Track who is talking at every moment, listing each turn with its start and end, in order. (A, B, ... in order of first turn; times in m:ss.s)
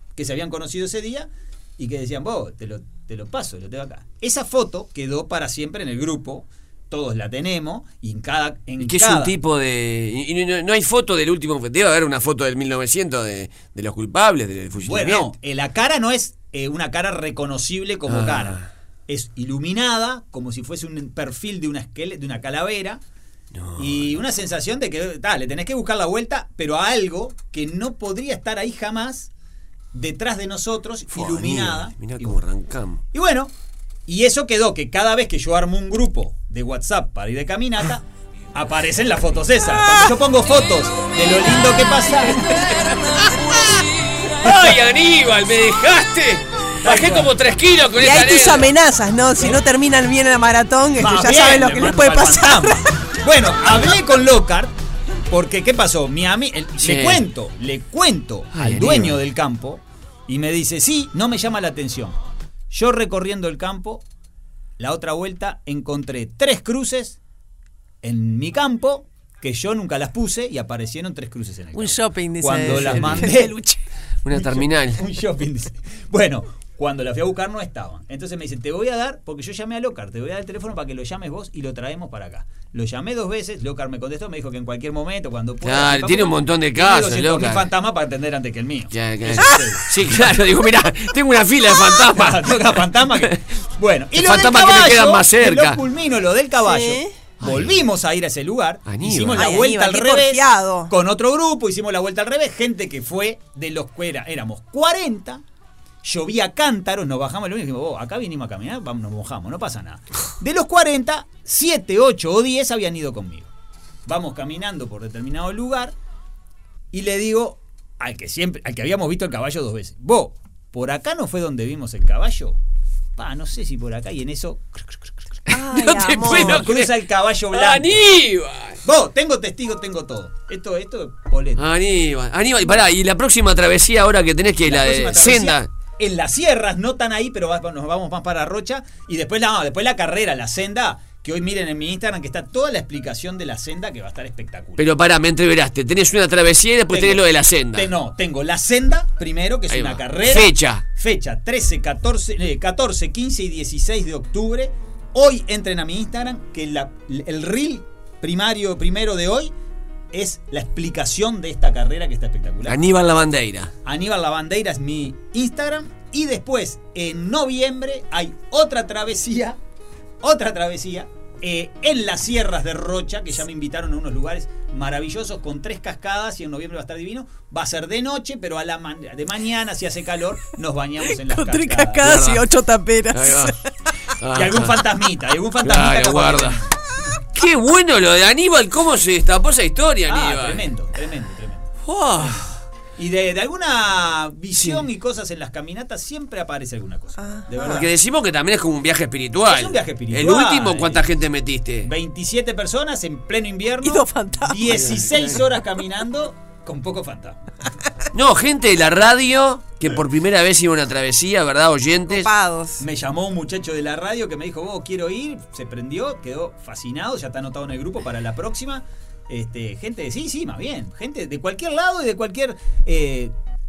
0:00.2-0:09.4 A
0:08.8-0:15.3 B
0:14.8-0:23.0 A
0:18.1-0:18.7 B
0:23.5-0:24.2 B
0:23.8-0:29.3 A
0:29.9-0:32.4 A
0:31.1-0:33.0 B
0:33.1-0:33.5 A
0:34.0-0:42.8 A
0:43.1-0:48.7 B
0:46.8-0:47.3 A
0:48.0-0:53.0 C
0:51.0-0:54.7 A
0:55.3-1:02.2 A
0:56.8-0:57.2 B
0:58.5-0:59.2 B
1:02.7-1:04.0 A
1:04.8-1:07.2 A
1:08.0-1:13.6 A
1:11.7-1:13.8 C
1:12.7-1:13.2 B
1:14.2-1:15.0 B
1:14.3-1:30.4 A
1:25.6-1:27.6 B
1:28.9-1:33.4 B
1:29.4-1:29.7 C
1:31.7-1:45.4 A
1:34.1-1:35.8 B
1:36.6-1:37.2 C
1:37.4-1:37.8 B
1:38.8-1:39.5 B
1:39.3-1:40.9 C
1:46.0-1:53.5 A
1:54.0-1:55.9 A
1:56.9-2:02.6 A
2:03.2-2:05.6 A
2:05.5-2:06.9 B
2:05.5-2:06.7 C
2:06.2-2:08.0 A
2:07.5-2:08.8 B
2:08.8-2:11.7 A
2:11.6-2:15.7 B
2:14.6-2:24.9 A
2:24.8-2:27.9 B
2:26.9-2:39.5 A
2:29.7-2:30.8 B
2:40.1-2:42.8 A
2:42.6-2:43.7 B
2:43.8-2:49.6 A
2:50.2-3:02.2 A
3:01.0-3:04.1 C
3:02.0-3:02.4 B
3:03.1-3:03.6 B
3:04.2-3:04.8 B
3:04.3-3:06.8 A
3:05.6-3:06.6 B
3:07.3-3:10.6 B
3:10.0-3:17.9 A
3:11.8-3:12.5 B
3:14.5-3:14.8 B
3:17.2-3:17.9 C
3:17.7-3:21.9 B
3:19.4-3:21.1 A
3:21.8-3:27.5 A
3:23.8-3:25.4 C
3:28.1-3:32.3 B
3:32.1-3:32.8 C
3:32.8-3:43.3 A